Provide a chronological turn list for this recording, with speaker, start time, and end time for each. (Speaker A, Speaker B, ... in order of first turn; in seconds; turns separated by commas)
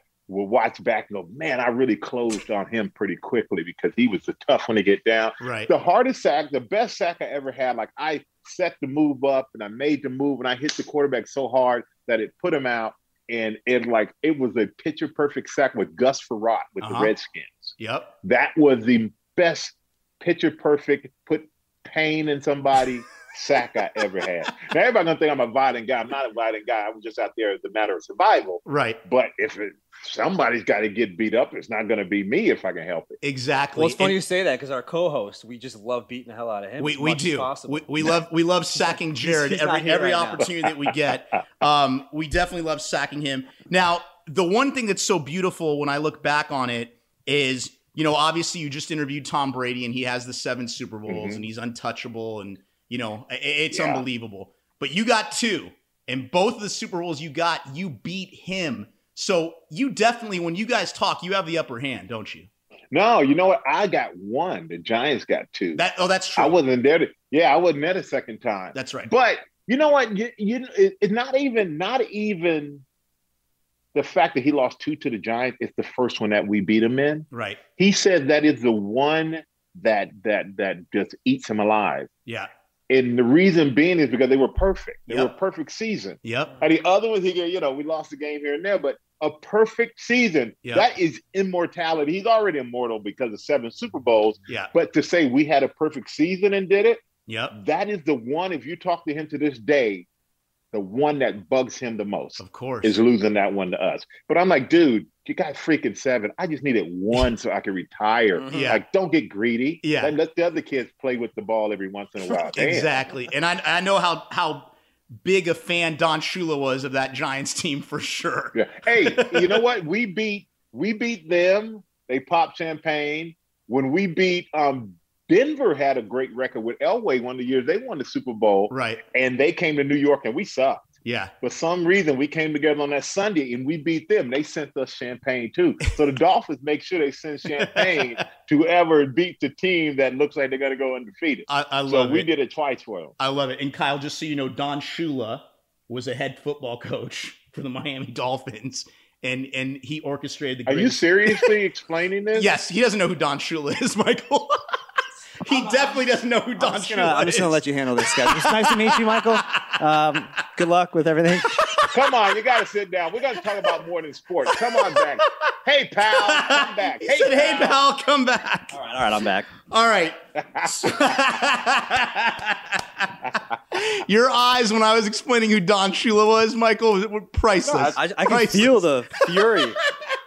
Speaker A: 0.3-33.2, Speaker B: 5.4-5.7, Speaker B: 16.8-17.1, Speaker B: 17.8-18.1, Speaker B: 28.6-29.0, Speaker B: 33.2-34.2, Speaker C: 33.7-37.9, Speaker B: 36.8-62.5, Speaker C: 38.8-40.5, Speaker A: 51.1-51.4, Speaker A: 53.7-54.0, Speaker A: 62.9-65.8, Speaker B: 65.7-66.5, Speaker A: 66.3-72.8, Speaker B: 68.7-69.1, Speaker A: 73.9-82.1, Speaker B: 77.3-77.6, Speaker A: 82.9-100.1, Speaker B: 86.2-86.6, Speaker B: 97.3-97.5, Speaker A: 100.7-113.0, Speaker B: 102.4-103.0, Speaker C: 108.3-108.7, Speaker B: 108.5-108.8, Speaker B: 109.8-110.1, Speaker B: 112.3-119.6, Speaker A: 118.5-130.9, Speaker B: 128.7-129.0, Speaker B: 131.0-131.3, Speaker A: 131.4-143.1, Speaker B: 137.6-138.1, Speaker B: 141.5-142.3, Speaker B: 143.2-151.5, Speaker A: 150.7-152.5, Speaker B: 152.3-154.6, Speaker B: 155.4-157.6, Speaker C: 155.5-155.9, Speaker C: 156.6-161.6, Speaker B: 158.2-159.8, Speaker B: 161.6-161.9, Speaker A: 161.9-167.8, Speaker B: 164.5-165.0, Speaker B: 166.2-168.8, Speaker C: 168.7-169.5, Speaker B: 169.7-173.1, Speaker B: 173.7-179.3, Speaker A: 177.6-178.0, Speaker C: 177.9-179.8